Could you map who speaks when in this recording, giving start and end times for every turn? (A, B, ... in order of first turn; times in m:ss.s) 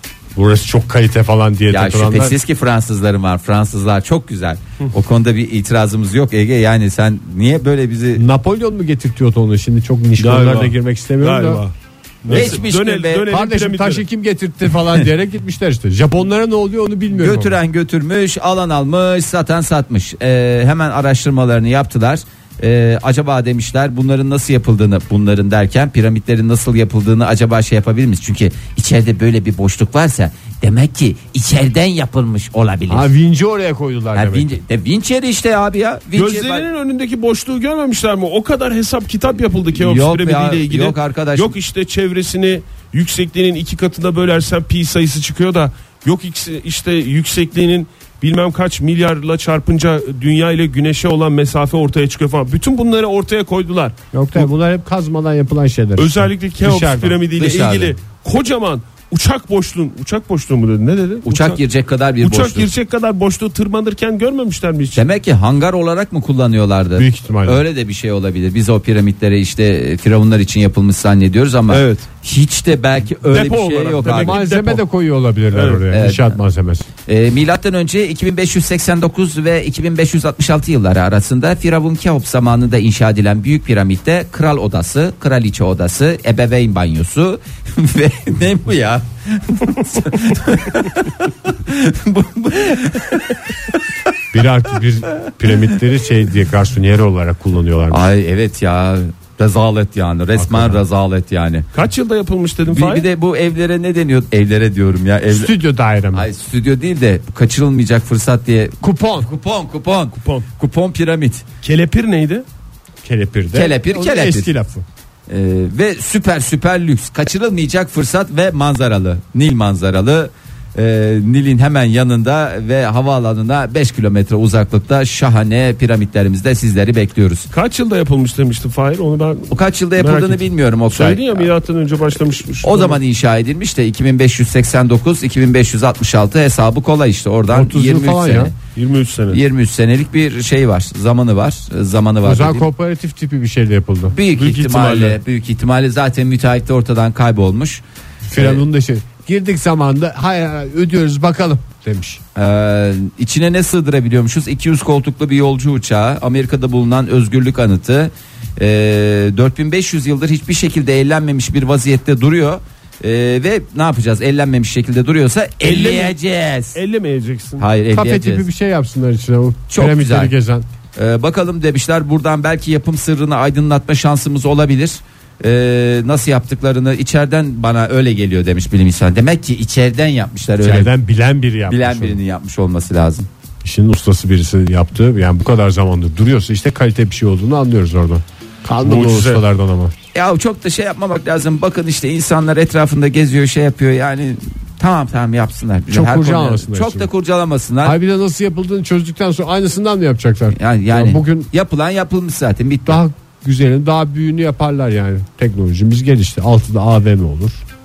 0:00.3-0:02.4 A
0:01.7-0:08.2 B
0:08.1-0:11.6 A
0:10.2-0:14.0 C
0:12.3-0:12.6 A
0:12.3-0:13.2 B
0:13.3-0:17.6 A
0:17.1-0:33.1 B
0:32.9-0:34.6 A
0:34.1-0:36.7 B
0:36.2-0:54.5 C
0:39.7-0:41.5 B
0:54.1-0:57.2 A
0:56.0-1:01.6 C
0:57.4-0:58.0 B
1:01.3-1:02.7 B
1:02.2-1:05.0 C
1:04.9-1:14.4 B
1:07.0-1:07.6 A
1:11.7-1:12.0 C
1:13.3-1:14.8 C
1:14.1-1:16.9 A
1:15.5-1:15.8 C
1:15.9-1:16.3 B
1:17.1-1:33.7 B
1:34.3-1:38.1 A
1:37.9-1:41.6 B
1:40.4-1:40.8 A
1:41.7-1:43.1 C
1:42.7-1:45.5 B
1:45.3-1:46.3 A
1:46.1-1:51.4 B
1:48.8-1:49.3 A
1:50.1-1:50.5 C
1:51.6-1:52.4 C
1:53.0-1:54.8 A
1:53.5-1:54.5 B
1:55.3-2:07.5 B
2:07.5-2:13.0 C
2:09.5-2:11.5 B
2:12.6-2:18.5 B
2:17.5-2:18.5 A
2:18.7-2:19.4 C
2:19.3-2:22.7 B
2:22.2-2:24.2 A
2:24.1-2:27.8 B
2:24.3-2:25.2 C
2:28.3-2:32.2 A
2:28.3-2:28.6 B
2:32.4-2:46.8 B
2:45.6-2:46.2 C
2:46.7-2:47.6 C
2:47.6-2:48.4 B
2:47.9-2:50.6 A
2:49.7-2:50.3 B
2:51.0-3:00.9 B
3:00.6-3:02.2 A
3:01.7-3:03.3 B
3:03.6-3:09.9 A
3:08.8-3:09.4 C
3:10.1-3:18.0 B
3:15.9-3:17.1 A
3:17.8-3:21.5 A
3:20.5-3:23.0 B
3:22.8-3:27.6 A